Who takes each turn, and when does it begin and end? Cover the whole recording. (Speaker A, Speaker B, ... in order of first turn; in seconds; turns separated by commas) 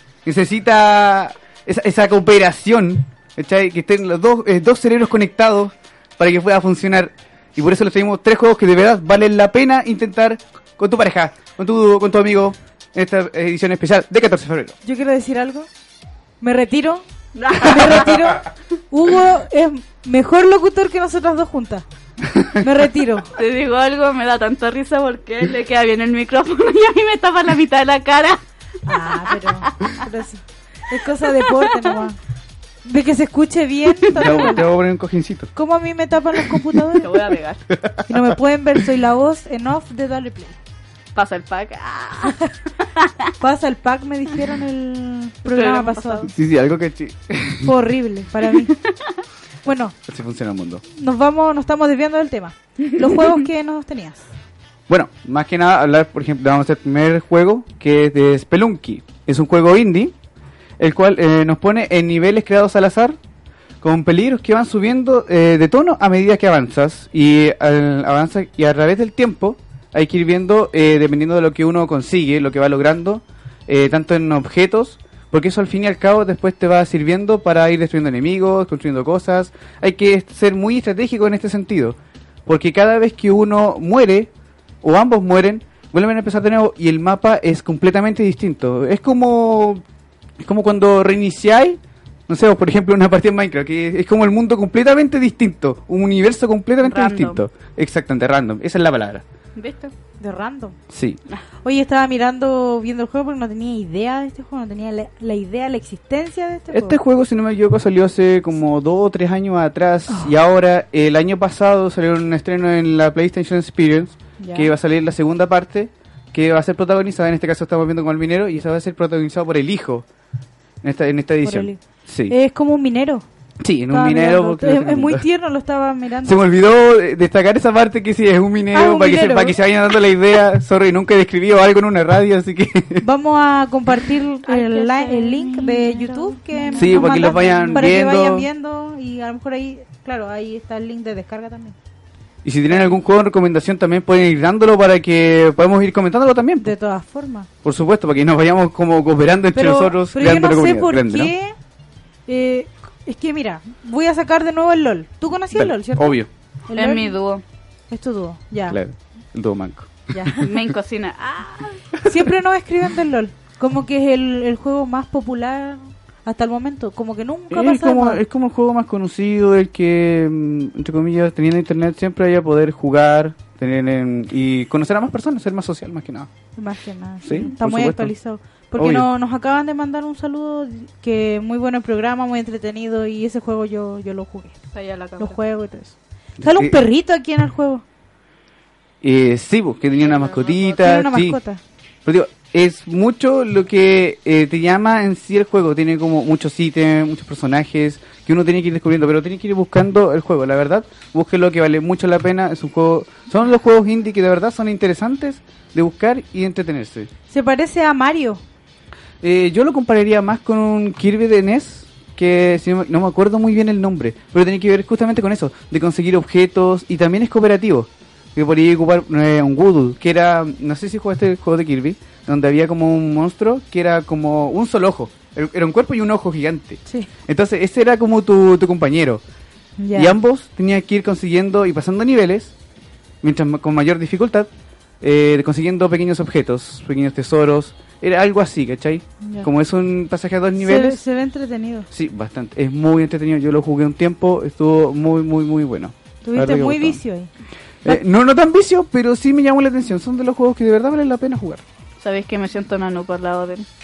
Speaker A: 0.2-14.8, Speaker B: 14.8-15.7, Speaker B: 16.4-21.9, Speaker C: 17.4-18.2, Speaker B: 22.6-23.3, Speaker C: 23.4-28.4, Speaker B: 28.9-32.2, Speaker C: 28.9-30.0, Speaker C: 31.3-32.0, Speaker B: 32.9-34.7, Speaker C: 34.1-34.5, Speaker A: 34.1-35.5, Speaker B: 35.6-37.2, Speaker C: 37.0-37.6, Speaker A: 37.7-38.2, Speaker B: 38.1-40.6, Speaker C: 41.1-43.2, Speaker B: 43.4-46.3, Speaker C: 45.5-46.3, Speaker A: 46.3-47.7, Speaker B: 47.6-48.7, Speaker C: 48.6-49.1, Speaker B: 49.6-50.0, Speaker A: 50.1-50.8, Speaker B: 50.9-54.3, Speaker A: 54.9-60.1, Speaker A: 60.8-63.2, Speaker A: 63.8-84.3, Speaker A: 84.8-89.8, Speaker A: 90.4-99.2, Speaker C: 96.8-97.4, Speaker C: 99.6-99.9, Speaker B: 100.2-100.8, Speaker A: 100.9-101.2, Speaker B: 101.6-107.0, Speaker A: 106.7-120.1, Speaker B: 114.4-114.7, Speaker A: 120.8-122.3, Speaker B: 121.4-123.2, Speaker A: 123.6-125.2, Speaker B: 123.9-126.4, Speaker A: 126.2-133.1, Speaker B: 128.7-129.6, Speaker B: 133.0-141.8, Speaker C: 134.5-137.9, Speaker A: 136.8-138.5, Speaker A: 142.4-146.7, Speaker B: 146.6-147.5, Speaker A: 147.6-151.3, Speaker B: 149.5-151.6, Speaker B: 152.3-156.2, Speaker A: 155.5-156.3, Speaker B: 156.7-157.2, Speaker C: 156.8-157.4, Speaker B: 157.9-158.8, Speaker A: 158.7-160.4, Speaker B: 160.1-160.5, Speaker C: 160.4-161.9, Speaker B: 162.1-168.2, Speaker A: 167.5-176.3, Speaker B: 176.6-184.6, Speaker A: 177.2-178.1, Speaker A: 178.8-179.1, Speaker C: 184.7-185.4, Speaker B: 185.2-187.8, Speaker A: 186.4-186.8, Speaker A: 189.0-191.4, Speaker C: 190.0-190.9, Speaker B: 190.8-191.6, Speaker A: 192.1-207.1, Speaker B: 207.3-208.4, Speaker A: 209.2-229.2, Speaker B: 229.8-230.2, Speaker A: 229.9-232.5, Speaker A: 233.2-234.5, Speaker A: 235.0-241.0, Speaker B: 239.2-239.5, Speaker B: 240.6-241.9, Speaker A: 241.9-247.0, Speaker B: 246.2-247.3, Speaker A: 247.8-251.6, Speaker C: 252.0-253.7